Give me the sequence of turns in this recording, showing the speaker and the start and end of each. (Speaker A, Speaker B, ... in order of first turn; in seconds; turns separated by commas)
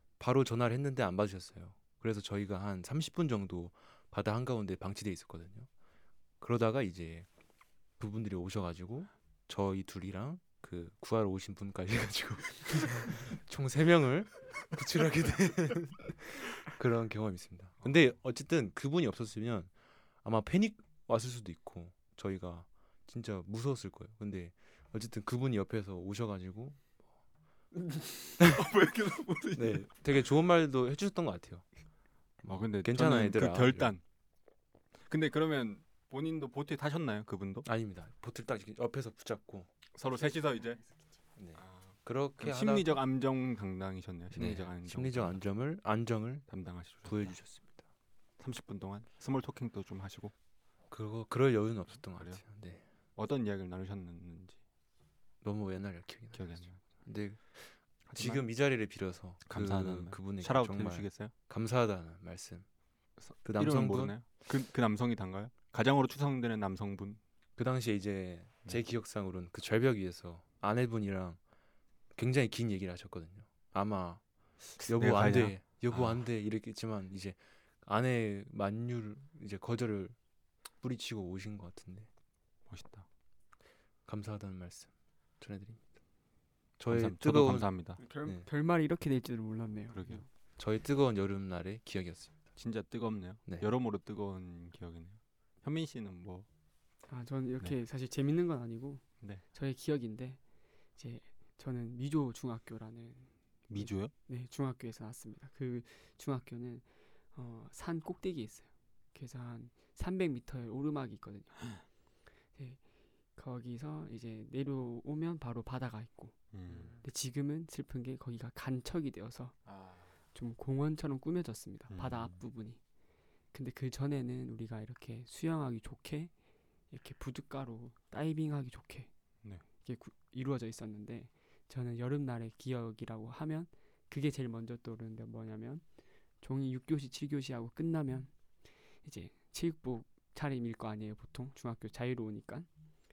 Speaker A: 0.2-5.7, Speaker A: 6.4-7.3, Speaker A: 8.0-19.7, Speaker A: 20.2-26.9, Speaker B: 28.4-29.9, Speaker A: 28.4-28.7, Speaker A: 29.6-31.6, Speaker A: 32.4-34.0, Speaker B: 32.5-34.0, Speaker B: 35.1-37.7, Speaker A: 37.6-39.7, Speaker B: 39.9-40.8, Speaker A: 41.4-43.0, Speaker B: 41.6-45.4, Speaker A: 44.3-46.5, Speaker B: 46.5-47.4, Speaker A: 47.0-47.8, Speaker B: 48.4-50.3, Speaker A: 50.9-52.8, Speaker B: 52.1-52.4, Speaker B: 53.2-54.6, Speaker A: 55.4-56.5, Speaker B: 56.3-56.8, Speaker A: 57.0-62.6, Speaker B: 58.1-58.5, Speaker B: 59.5-61.3, Speaker B: 63.2-67.2, Speaker A: 63.4-64.1, Speaker A: 67.6-71.4, Speaker A: 72.2-80.2, Speaker B: 74.8-76.2, Speaker A: 80.8-82.1, Speaker B: 82.7-83.1, Speaker A: 84.1-85.8, Speaker A: 86.8-87.7, Speaker B: 86.9-88.0, Speaker C: 88.0-90.3, Speaker B: 89.9-90.2, Speaker A: 90.6-92.3, Speaker B: 92.6-96.5, Speaker C: 97.1-100.4, Speaker C: 101.0-111.7, Speaker B: 103.7-104.1, Speaker C: 112.6-112.8, Speaker C: 113.3-116.4, Speaker B: 116.5-117.0, Speaker A: 116.7-117.0, Speaker C: 117.0-119.6, Speaker C: 120.3-122.8, Speaker B: 121.9-122.4, Speaker C: 123.5-126.3, Speaker C: 126.9-129.1, Speaker C: 129.8-135.8, Speaker C: 136.4-138.3, Speaker C: 139.0-142.7